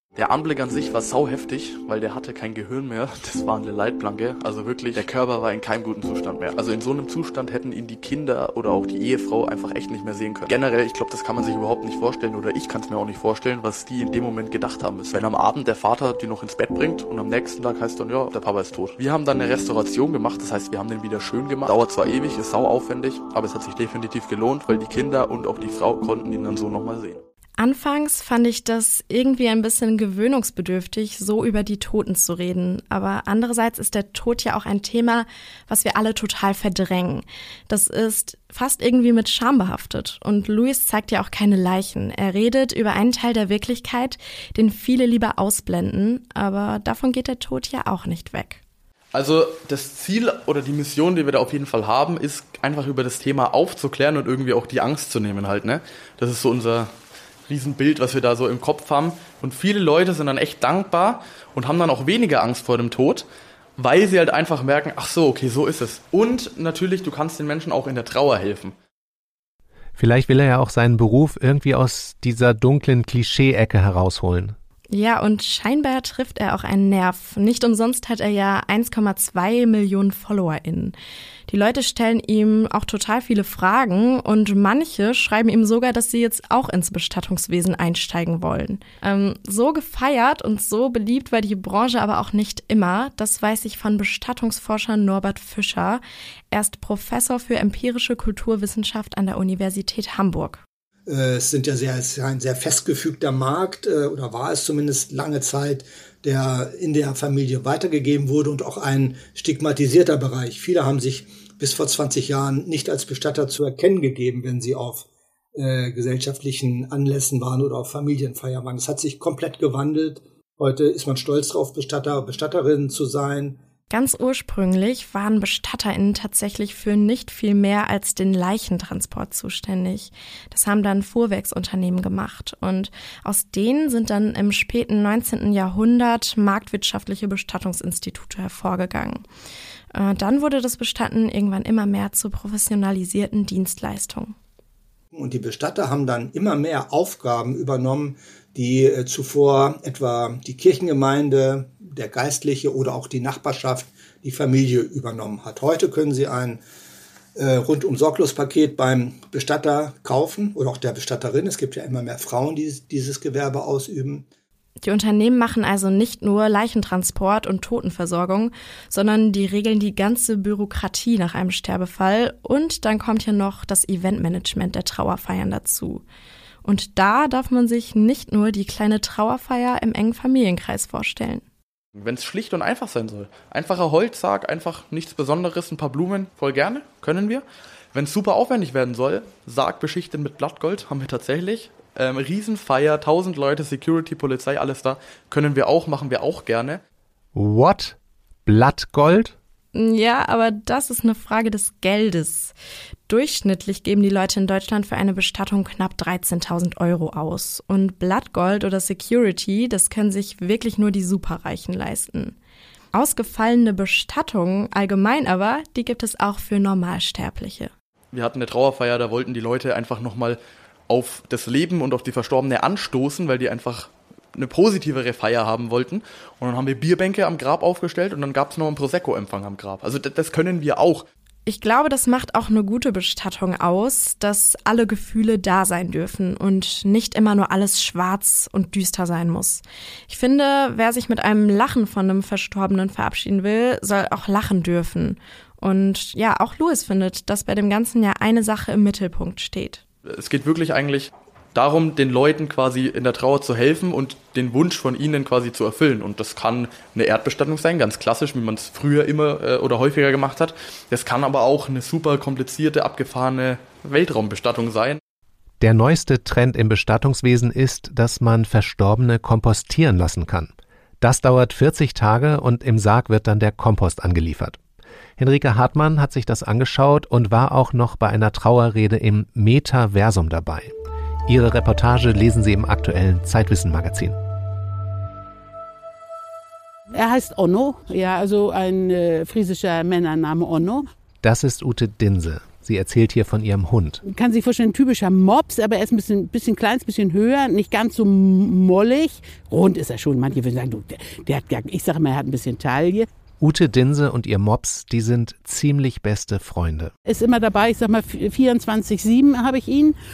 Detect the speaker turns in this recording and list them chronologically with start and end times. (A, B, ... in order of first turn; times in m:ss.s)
0:00.2-0:27.2 A
0:27.6-0:48.6 B
0:49.1-0:56.9 A
0:57.5-1:03.3 A
1:03.8-1:08.8 A
1:10.0-1:14.6 C
1:14.9-1:21.0 B
1:21.5-1:40.6 B
1:41.1-2:03.6 D
2:03.9-2:19.2 B
2:19.9-2:24.4 B
2:25.1-2:36.6 D
2:37.4-2:44.3 D
2:44.8-2:56.0 B
2:56.6-3:01.4 B
3:02.0-3:16.8 A
3:17.4-3:19.4 C
3:19.7-3:22.6 B
3:23.1-3:32.4 B
3:32.9-3:37.7 B
3:38.1-3:51.1 A
3:51.5-4:09.8 B
4:10.1-4:25.0 A
4:25.6-4:34.6 C
4:35.2-4:40.7 C
4:41.3-4:44.2 C
4:46.9-4:50.9 E
4:51.2-4:54.0 C
4:54.0-5:03.1 E
5:03.4-5:06.9 C
5:07.1-5:10.0 E